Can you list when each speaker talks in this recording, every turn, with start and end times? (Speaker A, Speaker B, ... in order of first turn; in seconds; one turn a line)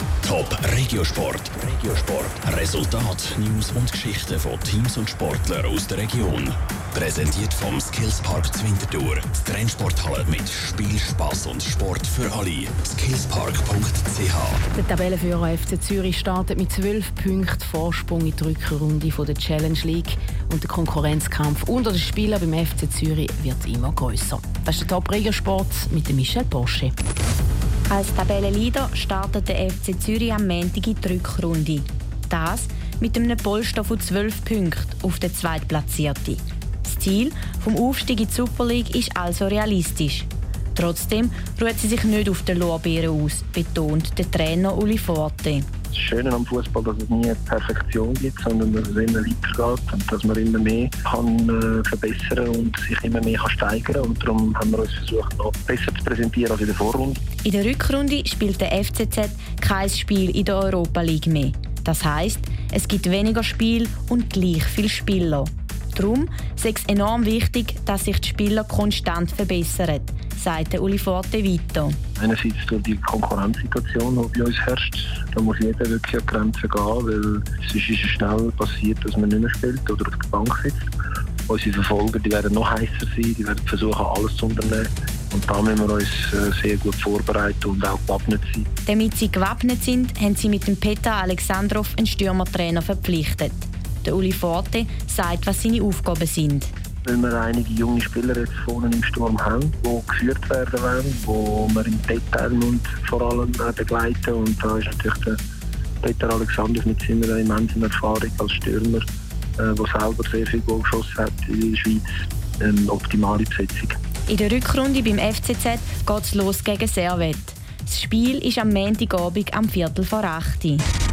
Speaker A: 0.2-14.6
Speaker B: 14.7-26.9
Speaker C: 27.9-45.7
Speaker D: 45.9-57.2
Speaker C: 57.4-72.0
Speaker D: 72.2-80.8
Speaker D: 81.5-88.7
Speaker C: 88.9-96.7
Speaker D: 97.0-105.4
Speaker D: 106.0-109.0
Speaker D: 109.6-112.0
Speaker D: 112.6-114.0
Speaker C: 114.3-120.8